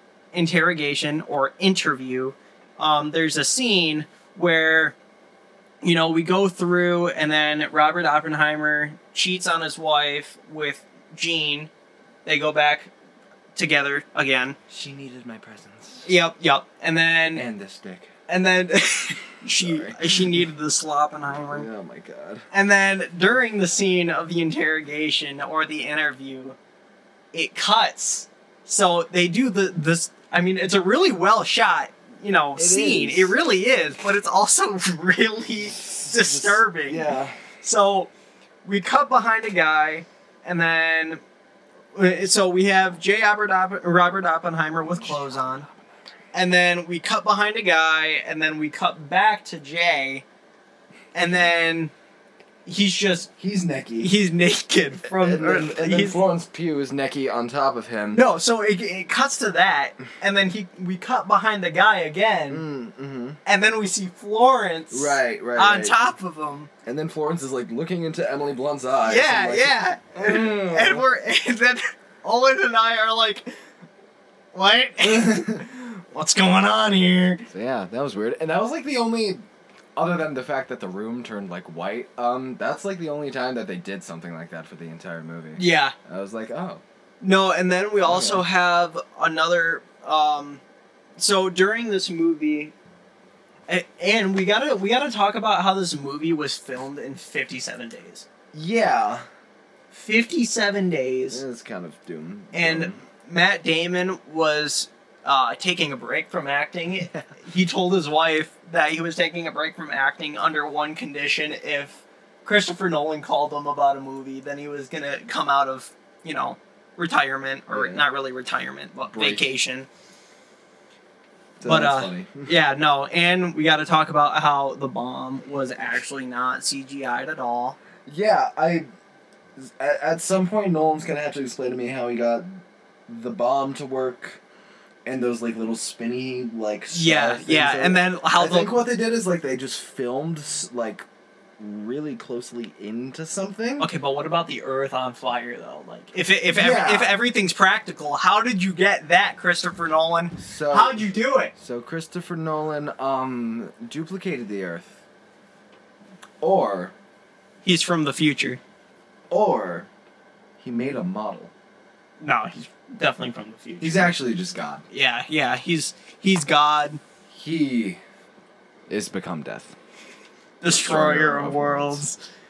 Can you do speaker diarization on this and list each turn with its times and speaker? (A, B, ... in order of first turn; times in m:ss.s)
0:00.3-0:04.9 A
0:05.8-0:11.7 A
0:12.2-0:12.9 A
0:13.6-0:14.6 A
0:14.7-0:16.1 B
0:16.0-0:17.4 A
0:17.3-0:18.1 B
0:18.3-0:21.7 A
0:19.5-0:20.3 B
0:21.5-0:22.5 B
0:22.5-0:26.6 A
0:27.3-0:38.1 A
0:32.5-0:33.4 B
0:35.8-0:37.4 B
0:38.6-0:41.2 A
0:41.9-0:45.7 A
0:44.9-0:45.7 B
0:46.3-0:50.2 A
0:51.1-0:51.9 A
0:52.6-0:53.3 A
0:53.4-0:54.1 B
0:54.0-0:56.2 A
0:55.0-0:58.2 B
0:58.1-1:02.6 A
1:02.5-1:03.4 B
1:03.4-1:06.7 A
1:04.9-1:06.0 B
1:06.8-1:11.0 B
1:09.0-1:13.6 A
1:14.5-1:17.5 A
1:15.0-1:15.6 B
1:17.5-1:19.4 B
1:20.0-1:26.8 B
1:25.6-1:25.9 A
1:27.2-1:30.6 A
1:28.0-1:28.4 B
1:31.2-1:32.7 A
1:33.7-1:38.2 A
1:38.5-1:39.2 B
1:39.9-1:41.4 A
1:41.3-1:43.0 B
1:42.5-1:59.9 A
1:57.7-1:58.0 B
1:59.1-1:59.5 B
2:01.6-2:02.5 B
2:01.6-2:07.8 A
2:08.0-2:08.9 B
2:09.6-2:14.4 B
2:15.0-2:21.0 B
2:16.9-2:18.7 A
2:21.6-2:23.9 B
2:23.8-2:31.5 A
2:26.5-2:27.2 B
2:30.4-2:35.0 B
2:36.4-2:36.9 B
2:37.6-2:38.6 A
2:39.3-2:39.9 B
2:40.6-2:41.5 B
2:42.2-2:44.2 A
2:43.8-2:44.8 B
2:44.9-2:47.0 A
2:47.3-2:48.0 B
2:48.9-2:49.8 B
2:50.6-2:52.2 A
2:50.6-2:52.1 B